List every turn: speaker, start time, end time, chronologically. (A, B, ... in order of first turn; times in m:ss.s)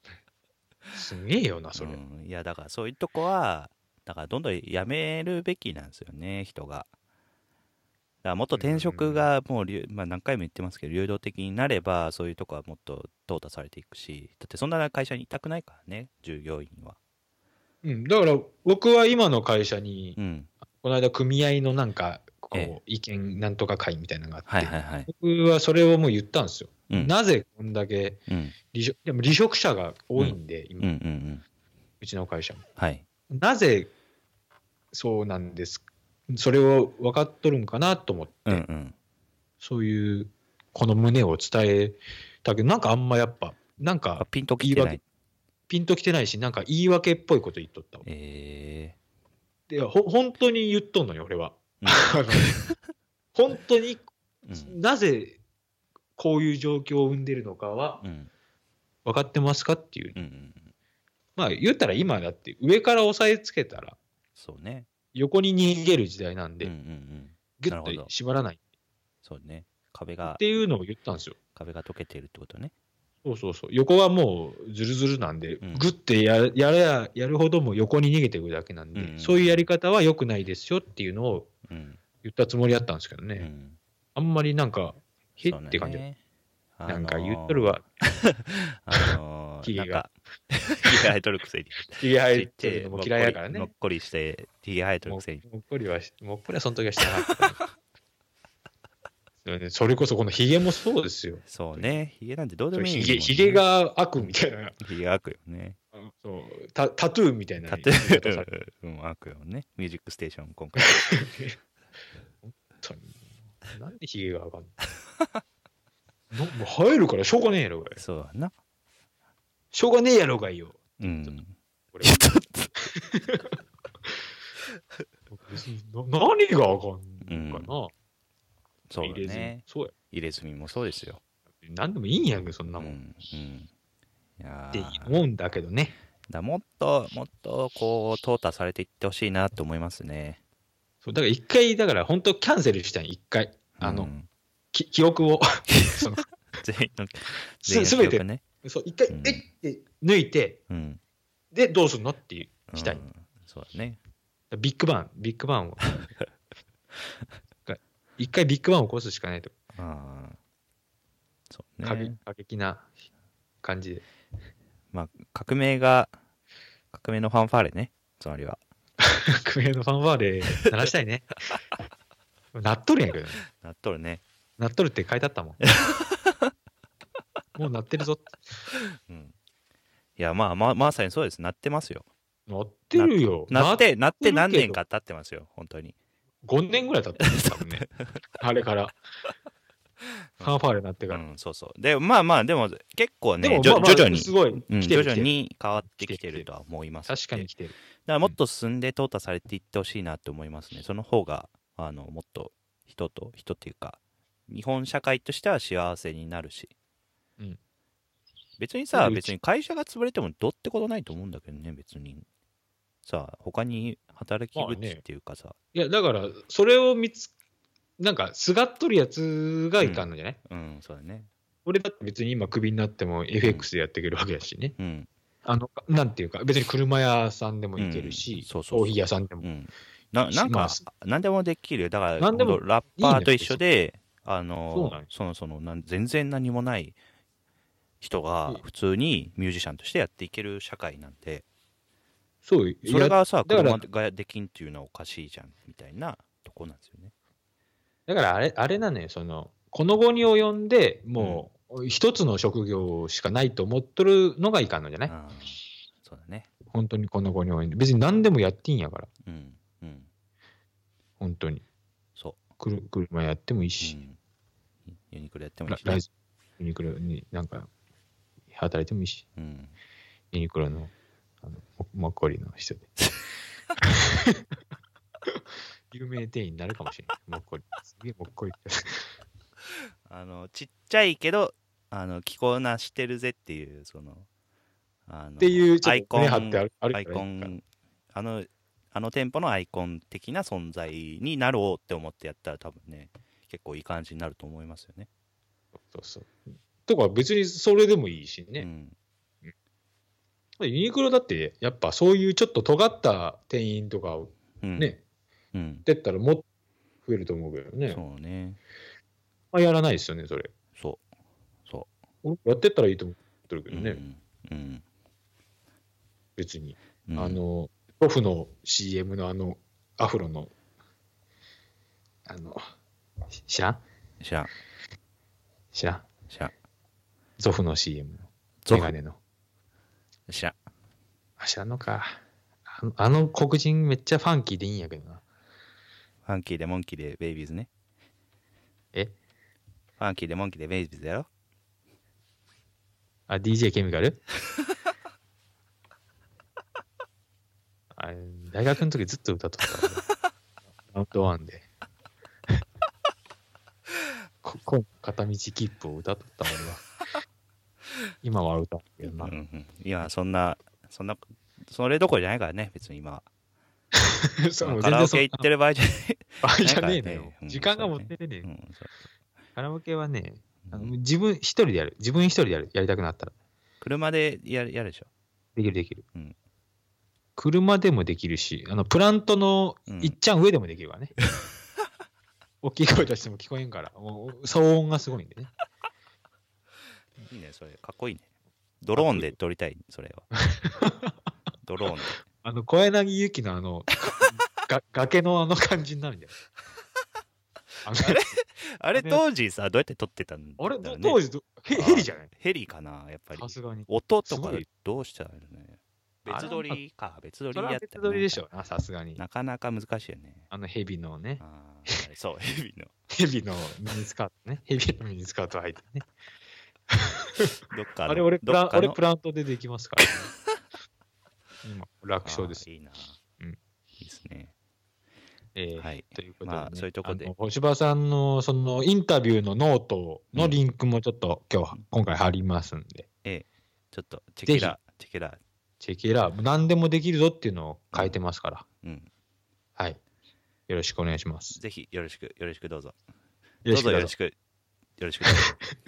0:00.9-0:02.0 A
0:01.8-0:06.9 B
0:08.2-0:17.0 B
0:08.6-0:09.3 A
0:17.8-0:20.2 A
0:20.2-0:20.5 B
0:20.8-0:28.2 A
0:24.5-0:25.1 B
0:28.3-0:28.6 B
0:28.7-0:30.9 A
0:30.2-0:31.4 B
0:32.0-0:32.6 A
0:32.8-0:33.0 B
0:33.3-0:33.9 A
0:34.9-0:38.6 A
0:38.5-0:39.0 B
0:39.6-0:45.0 A
0:44.2-0:45.0 B
0:45.7-0:48.1 A
0:48.0-0:49.0 B
0:49.7-0:52.7 A
0:51.8-0:52.8 B
0:53.4-0:55.4 A
0:54.4-0:54.8 B
0:56.2-0:58.0 A
0:58.0-0:58.3 B
0:59.0-1:00.2 A
1:00.2-1:00.7 B
1:01.4-1:04.0 A
1:04.4-1:04.9 B
1:05.1-1:06.7 A
1:06.6-1:08.1 B
1:07.6-1:08.6 A
1:09.2-1:10.4 B
1:10.2-1:11.4 A
1:11.6-1:12.7 B
1:13.2-1:21.5 A
1:15.6-1:15.9 B
1:18.9-1:19.7 B
1:21.7-1:22.0 B
1:22.2-1:23.5 A
1:23.4-1:23.8 B
1:24.2-1:26.0 A
1:25.4-1:26.2 B
1:26.8-1:35.4 B
1:26.9-1:27.8 A
1:28.9-1:30.0 A
1:31.9-1:33.7 A
1:35.1-1:37.6 A
1:39.4-1:42.0 A
1:41.5-1:43.6 B
1:42.7-1:44.8 A
1:44.2-1:45.8 B
1:45.9-1:48.5 A
1:47.7-1:51.1 B
1:50.8-1:51.6 A
1:52.4-1:54.8 A
1:56.3-1:58.0 A
1:58.0-1:58.5 B
1:59.7-2:01.3 A
2:01.0-2:02.7 B
2:01.9-2:04.2 A
2:05.3-2:07.9 A
2:07.2-2:07.7 B
2:08.9-2:11.2 B
2:09.0-2:09.9 A
2:11.6-2:13.0 A
2:12.8-2:13.7 B
2:14.4-2:15.2 B
2:14.7-2:16.0 A
2:16.3-2:20.4 B
2:21.0-2:24.1 A
2:23.8-2:24.3 B
2:24.7-2:26.3 A
2:25.7-2:28.4 B
2:27.6-2:30.6 A
2:29.1-2:29.5 B
2:30.7-2:31.0 B
2:31.5-2:33.0 A
2:32.7-2:34.0 B
2:34.5-2:35.8 A
2:37.7-2:39.5 A
2:39.8-2:40.4 B
2:41.5-2:42.2 B
2:41.8-2:42.9 A
2:43.6-2:44.0 A
2:44.9-2:46.1 B
2:46.9-2:48.6 B
2:49.0-2:51.5 A
2:52.5-2:53.4 A
2:53.5-2:54.2 B
2:54.6-2:55.6 A
2:55.6-2:56.5 B
2:57.6-2:58.4 A
2:59.1-2:59.4 B
3:00.2-3:02.1 B
3:02.5-3:04.8 A
3:03.0-3:06.0 B
3:06.4-3:07.9 A
3:07.2-3:08.2 B
3:08.4-3:09.0 A
3:10.4-3:11.2 A
3:11.1-3:17.5 B
3:13.4-3:15.3 A
3:15.9-3:16.5 A
3:17.1-3:18.4 A
3:18.1-3:26.7 B
3:28.6-3:32.3 B
3:28.9-3:29.3 A
3:33.0-3:35.6 B
3:34.6-3:35.0 A
3:35.7-3:37.3 A
3:38.0-3:40.4 A
3:39.8-3:41.3 B
3:41.7-3:44.8 A
3:44.8-3:45.1 B
3:45.4-3:49.5 A
3:47.8-3:57.0 B
3:50.3-3:50.8 A
3:52.2-3:53.6 A
3:54.7-3:55.1 A
3:58.0-4:01.4 B
4:02.4-4:03.8 A
4:02.8-4:07.1 B
4:08.1-4:15.1 A
4:11.2-4:11.4 B
4:15.1-4:16.5 B
4:16.7-4:19.1 A
4:19.2-4:20.1 B
4:21.2-4:21.6 A
4:22.6-4:24.0 A
4:23.8-4:24.2 B
4:24.9-4:26.0 B
4:25.7-4:27.7 A
4:28.5-4:29.2 A
4:29.4-4:29.7 B
4:30.3-4:30.9 A
4:31.4-4:32.9 A
4:33.8-4:34.4 A
4:35.3-4:39.1 A
4:40.1-4:44.3 B
4:45.1-4:55.1 B
4:45.4-4:47.6 A
4:55.8-4:58.7 A
4:58.6-4:59.0 B
5:00.6-5:05.0 A
5:04.6-5:04.9 B
5:05.5-5:05.8 B
5:05.8-5:06.4 A
5:07.0-5:08.0 A
5:07.9-5:08.6 B
5:09.5-5:10.5 A
5:10.8-5:11.0 B
5:12.2-5:14.0 A
5:13.7-5:14.8 B
5:16.4-5:20.5 A
5:17.1-5:17.4 B
5:22.3-5:22.6 A
5:23.3-5:23.8 A
5:24.2-5:24.5 B
5:25.7-5:26.1 A
5:27.4-5:29.2 A
5:28.6-5:29.0 B
5:30.3-5:30.6 B
5:31.4-5:35.2 A
5:36.2-5:37.7 B
5:40.0-5:41.3 B
5:43.3-5:44.2 A
5:48.0-5:50.0 A
5:50.9-5:51.7 A
5:54.4-5:56.8 A
5:58.2-5:59.3 A
5:59.1-6:03.3 B
6:04.0-6:05.5 A
6:04.6-6:08.9 B
6:06.4-6:08.5 A
6:09.6-6:13.3 A
6:10.7-6:10.9 B
6:13.8-6:15.1 B
6:15.6-6:16.0 A
6:17.4-6:21.2 A
6:19.9-6:20.2 B
6:22.6-6:25.5 A
6:27.3-6:28.3 B
6:28.8-6:30.3 B
6:29.0-6:29.4 A
6:30.3-6:31.2 A
6:31.6-6:32.2 B
6:32.3-6:36.4 A
6:37.8-6:38.3 A
6:37.9-6:41.2 B
6:39.0-6:39.2 A
6:40.6-6:42.3 A
6:41.7-6:48.4 B
6:43.3-6:44.7 A
6:46.3-6:46.8 A
6:47.5-6:49.2 A
6:49.2-6:50.5 B
6:50.5-6:52.0 A
6:51.4-6:52.9 B
6:53.1-6:56.1 A
6:56.9-6:57.6 A
6:57.7-6:59.0 B
6:58.1-7:00.3 A
7:01.6-7:02.6 A
7:02.2-7:03.2 B
7:04.0-7:04.5 B
7:05.6-7:13.1 A
7:05.8-7:07.3 B
7:13.2-7:15.4 B
7:14.5-7:14.8 A
7:15.8-7:18.6 A
7:18.8-7:19.1 B
7:20.7-7:21.6 A
7:21.5-7:23.0 B
7:23.6-7:24.1 A
7:23.7-7:24.4 B
7:25.0-7:25.5 B
7:25.3-7:25.5 A